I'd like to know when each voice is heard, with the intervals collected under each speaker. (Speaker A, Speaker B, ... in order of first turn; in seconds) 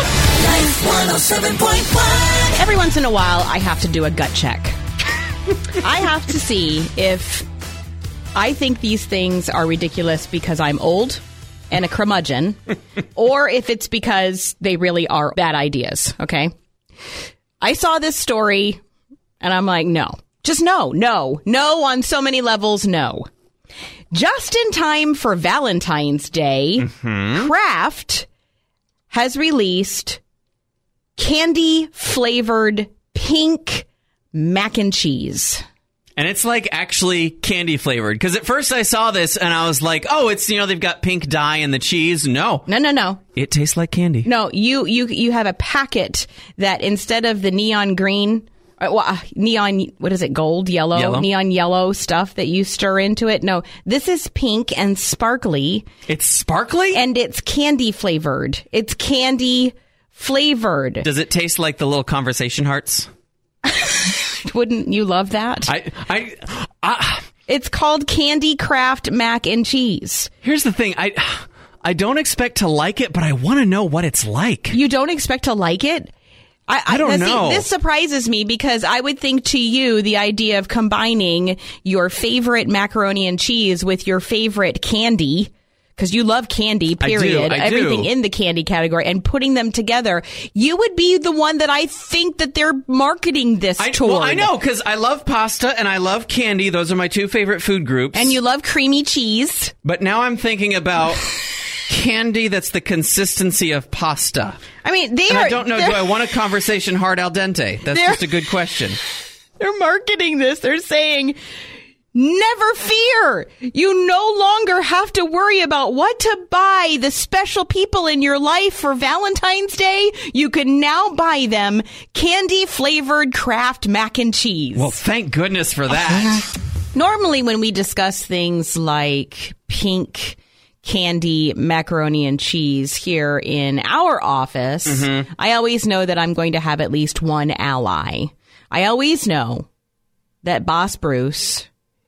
Speaker A: 0.4-4.8, 5.7-7.5, 8.3-12.6, 13.2-16.5, 17.6-18.8, 19.4-23.3, 24.1-28.3, 29.1-30.2, 31.2-35.6, 42.7-43.2, 44.2-55.9, 56.9-61.0, 64.4-65.7, 67.5-70.3, 74.7-76.1, 76.7-94.5, 98.1-99.7, 104.8-106.1, 107.9-108.2, 109.6-111.4, 112.1-124.9, 126.9-139.7, 140.4-141.7
Speaker B: 26.8-27.5, 36.2-42.7, 43.3-44.3, 50.9-51.3, 56.1-57.0, 61.0-63.1, 65.7-67.2, 70.4-74.8, 76.9-77.7, 87.0-88.1, 93.8-98.4, 99.8-101.3, 101.8-104.6, 105.3-109.0, 124.7-126.5, 134.8-135.3